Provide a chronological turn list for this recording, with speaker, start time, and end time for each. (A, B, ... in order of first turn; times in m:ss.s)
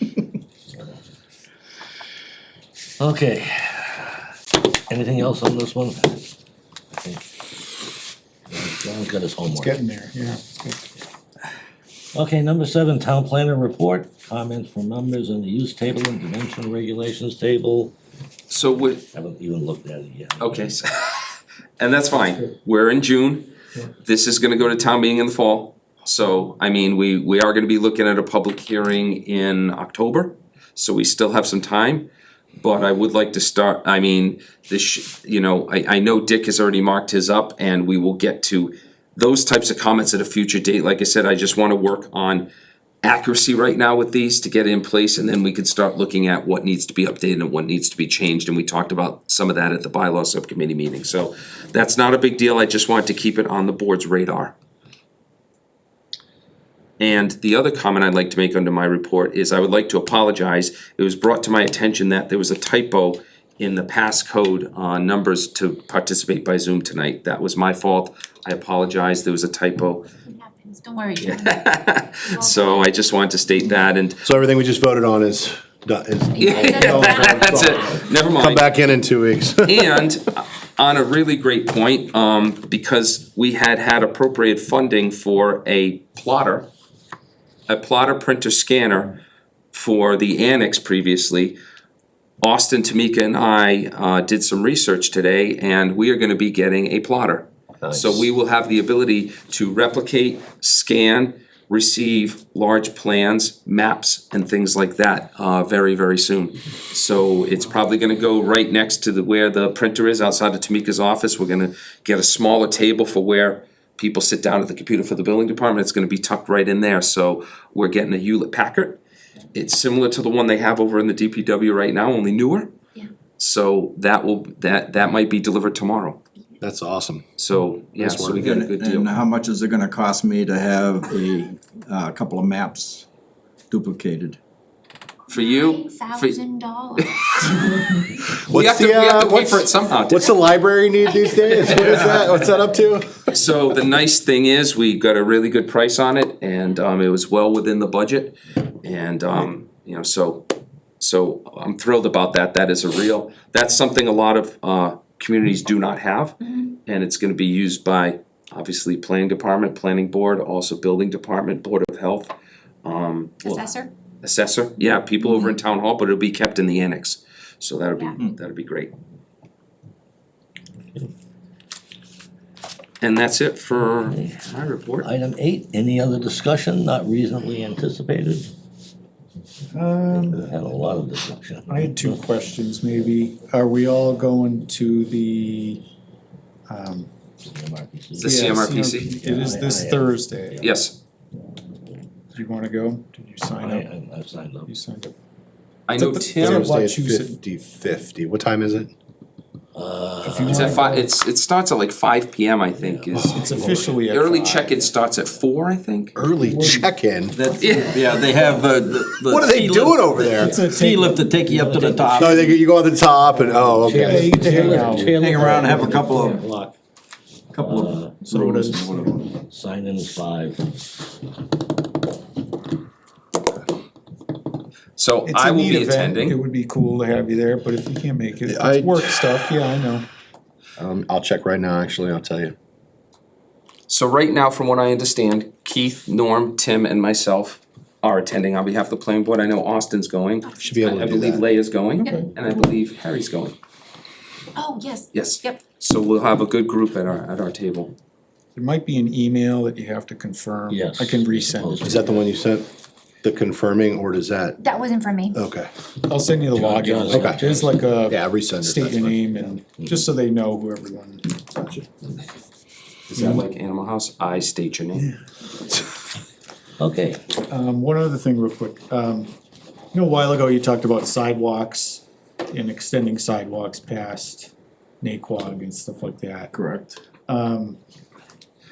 0:03.0-0:04.3 A
0:04.9-0:06.3 A
0:06.9-0:07.2 A
0:08.5-0:09.8 A
0:09.5-0:10.8 B
0:12.1-0:17.9 A
0:18.5-0:19.0 C
0:19.1-0:20.7 A
0:20.4-0:23.5 C
0:24.0-0:32.1 C
0:32.6-0:42.5 C
0:43.0-0:54.5 C
0:57.0-1:10.1 C
1:10.2-1:11.7 D
1:11.2-1:14.2 C
1:12.2-1:13.0 D
1:14.2-1:20.1 E
1:16.4-1:17.8 D
1:16.4-1:18.7 C
1:19.6-1:26.7 C
1:27.7-1:29.2 C
1:29.7-1:31.6 C
1:32.4-1:59.0 C
1:37.8-1:38.2 A
1:59.5-2:02.7 C
2:03.4-2:06.2 C
2:06.6-2:07.2 E
2:07.4-2:09.1 C
2:08.0-2:08.4 E
2:08.4-2:13.1 F
2:13.7-2:14.4 F
2:15.3-2:16.4 C
2:15.3-2:17.1 D
2:17.0-2:20.4 C
2:18.5-2:23.2 E
2:21.6-2:22.3 C
2:23.3-2:30.5 C
2:31.0-2:42.3 C
2:36.4-2:36.7 D
2:42.8-2:48.9 C
2:43.4-2:43.9 D
2:45.2-2:45.6 D
2:53.0-2:55.1 C
2:54.1-2:54.4 A
2:55.0-2:58.5 A
2:59.7-3:00.5 B
3:00.1-3:02.2 A
3:01.7-3:05.8 B
3:06.7-3:07.1 B
3:07.4-3:10.8 A
3:08.2-3:09.1 C
3:08.2-3:10.6 B
3:10.6-3:11.0 C
3:12.3-3:13.9 B
3:13.6-3:14.7 A
3:14.6-3:15.1 B
3:15.9-3:16.8 C
3:16.0-3:17.4 B
3:16.4-3:18.9 E
3:19.7-3:20.8 A
3:20.2-3:21.1 B
3:20.4-3:26.2 C
3:22.8-3:23.8 A
3:23.2-3:24.9 B
3:26.2-3:27.4 E
3:26.4-3:26.9 B
3:27.3-3:32.5 F
3:27.6-3:28.0 C
3:29.2-3:30.6 E
3:30.4-3:31.2 B
3:31.4-3:32.6 A
3:32.2-3:34.9 E
3:33.3-3:36.7 A
3:33.8-3:36.4 B
3:35.2-3:36.4 F
3:37.5-3:39.3 F
3:37.6-3:38.2 A
3:38.2-3:39.2 B
3:39.3-3:40.8 A
3:45.0-3:46.4 C
3:45.2-3:50.0 B
3:48.4-3:49.2 E
3:50.8-3:52.5 E
3:53.9-4:03.6 C
4:00.6-4:01.5 E
4:02.0-4:02.3 D
4:04.6-4:05.6 D
4:05.1-4:07.9 C
4:08.5-4:12.2 B
4:10.7-4:12.3 A
4:11.8-4:12.6 E
4:13.2-4:14.6 E
4:14.6-4:15.4 D
4:15.3-4:15.7 E
4:16.0-4:21.8 B
4:16.5-4:17.8 A
4:17.1-4:17.4 E
4:18.1-4:19.5 E
4:23.1-4:25.0 C
4:23.1-4:23.4 B
4:26.8-4:27.2 A
4:27.5-4:29.3 B
4:29.9-4:36.5 B
4:36.5-4:37.0 F
4:37.3-4:37.8 B